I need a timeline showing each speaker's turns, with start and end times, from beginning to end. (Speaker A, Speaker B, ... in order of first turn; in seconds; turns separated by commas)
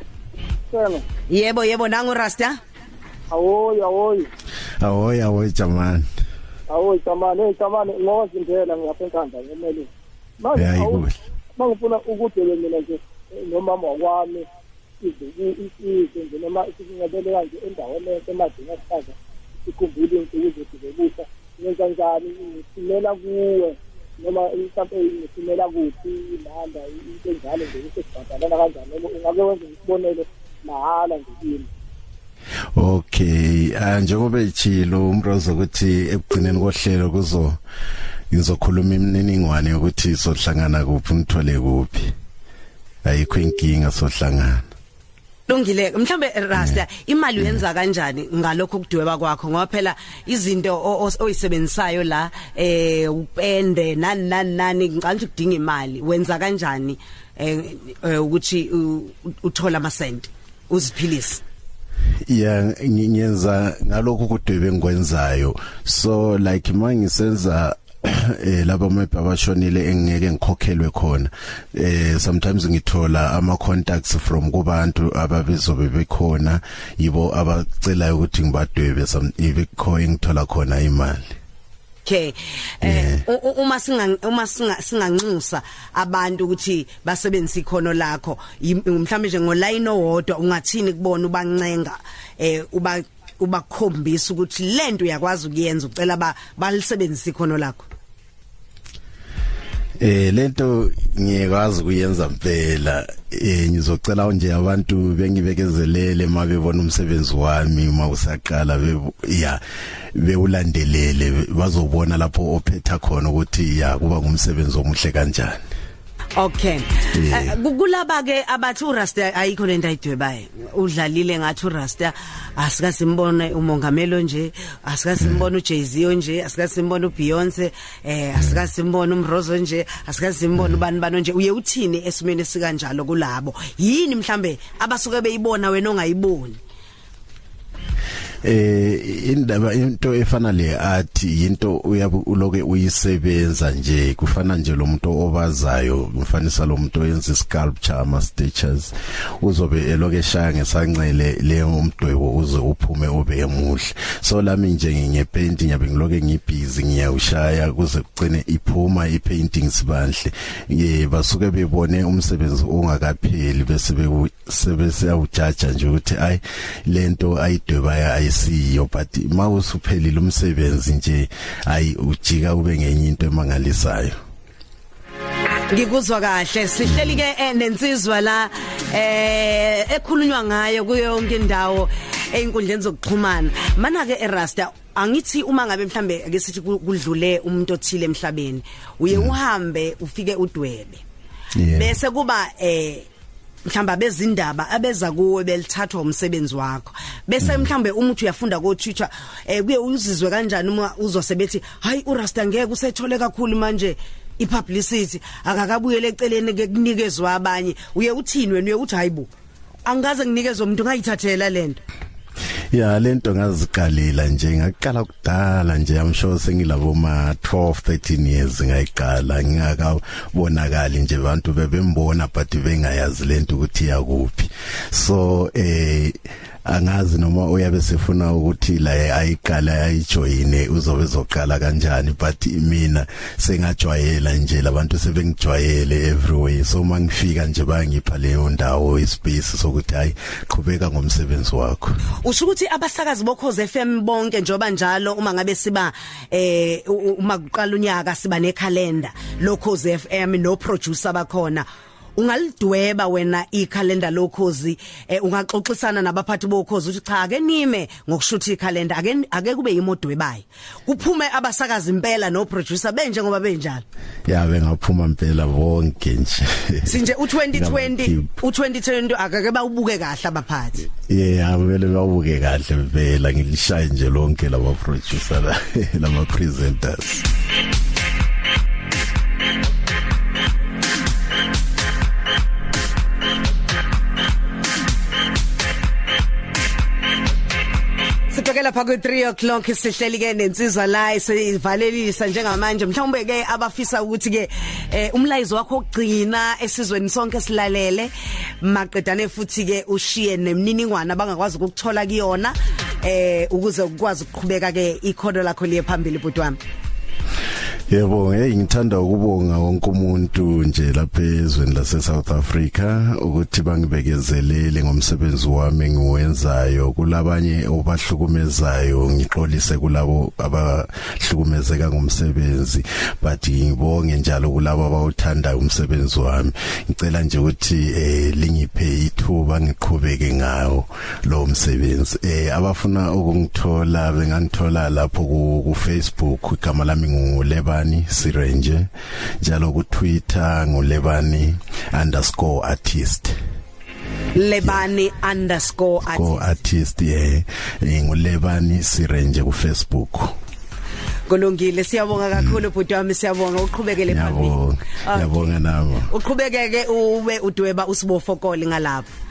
Speaker A: 0.7-1.0, Speaker B: 1.3-2.6, Speaker A: 3.3-4.3, Speaker C: 4.8-6.1, Speaker A: 6.7-9.9, Speaker A: 10.4-11.0, Speaker C: 10.5-11.2, Speaker A: 11.6-14.4, Speaker A: 15.0-19.1, Speaker A: 19.6-31.7, Speaker C: 32.8-37.6, Speaker C: 38.3-42.1, Speaker C: 43.0-44.6, Speaker B: 45.5-61.4, Speaker C: 62.2-81.3, Speaker B: 82.0-97.9, Speaker C: 82.8-83.2, Speaker C: 100.0-109.6, Speaker C: 110.1-115.7, Speaker B: 116.4-136.6, Speaker C: 117.1-117.5, Speaker C: 125.2-125.4, Speaker C: 138.4-174.2, Speaker B: 175.7-191.0, Speaker C: 191.6-191.9, Speaker B: 191.7-193.1, Speaker B: 193.7-209.3, Speaker C: 197.4-197.7, Speaker B: 209.8-211.8, Speaker C: 212.7-242.0, Speaker B: 242.2-251.7, Speaker B: 252.2-263.8, Speaker C: 264.3-268.3, Speaker B: 266.9-270.9, Speaker C: 271.1-277.3, Speaker B: 288.3-306.6, Speaker C: 307.9-338.9, Speaker C: 339.4-343.4, Speaker B: 344.4-346.5, Speaker C: 346.1-350.3, Speaker B: 351.3-355.4, Speaker C: 354.1-356.1, Speaker B: 356.1-359.1